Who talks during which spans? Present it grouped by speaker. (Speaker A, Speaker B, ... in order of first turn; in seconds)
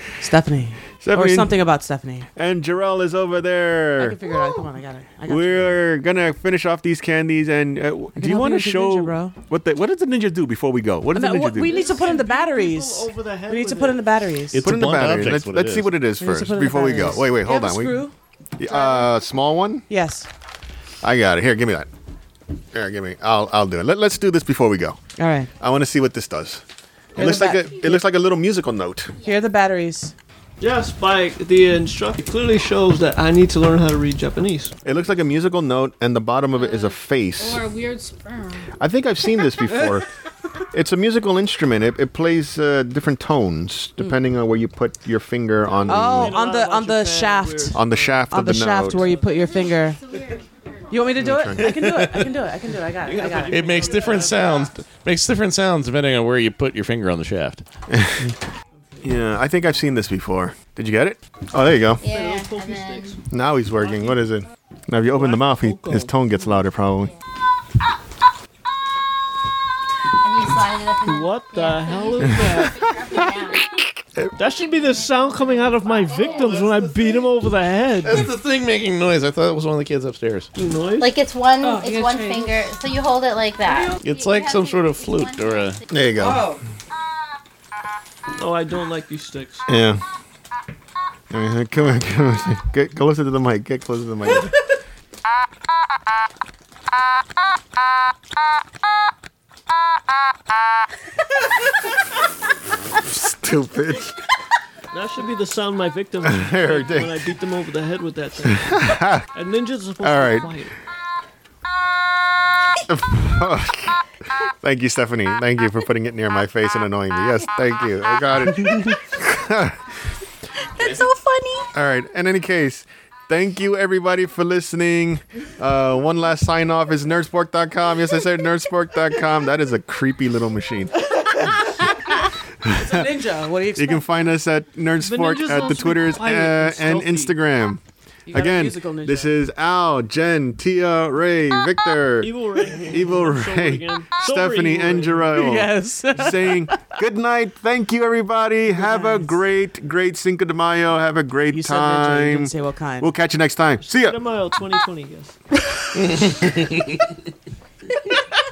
Speaker A: 0.2-2.3, 4.0-5.8, 8.2-9.3, 11.1-14.6, 16.2-19.2, 19.9-20.3, 25.2-25.5, 27.1-28.0, 29.2-30.1, 45.9-50.0, 50.9-54.3, 86.2-86.6, 132.7-134.1, 138.3-139.3, 145.3-146.8, 148.7-149.3, 151.5-153.1
Speaker B: 1.0-1.5, 2.4-4.2, 5.2-11.9, 14.6-18.0, 18.6-19.9, 21.0-21.9, 22.7-25.0, 25.6-26.6, 27.1-29.1, 34.8-37.6, 38.8-40.1, 40.7-46.4, 47.7-49.0, 51.2-52.3, 57.9-58.3, 59.0-62.0, 63.3-67.1, 73.7-74.3, 85.9-86.5, 89.7-90.0, 91.3-94.5, 103.0-104.1, 106.2-107.2, 108.6-109.3, 110.0-110.6, 112.9-119.8, 121.7-131.4, 132.6-133.0, 133.8-137.8, 138.3-154.2
Speaker C: 11.6-14.2, 30.6-34.7, 45.6-49.3, 53.0-54.7, 58.9-59.3, 62.0-63.2, 63.8-64.3, 65.1-66.1, 71.0-72.8, 74.3-78.3, 80.5-81.1, 88.3-89.6, 104.9-110.7, 135.0-137.3, 142.2-145.5, 153.8-155.3
Speaker D: 14.5-15.9, 53.5-57.6, 78.0-80.5, 84.0-85.8, 155.9-157.0
Speaker E: 29.2-29.4, 36.6-36.9, 49.2-51.3, 62.0-63.1, 70.2-73.7, 74.5-77.0, 81.0-85.8, 120.8-121.7
Speaker F: 37.4-38.7, 81.6-82.6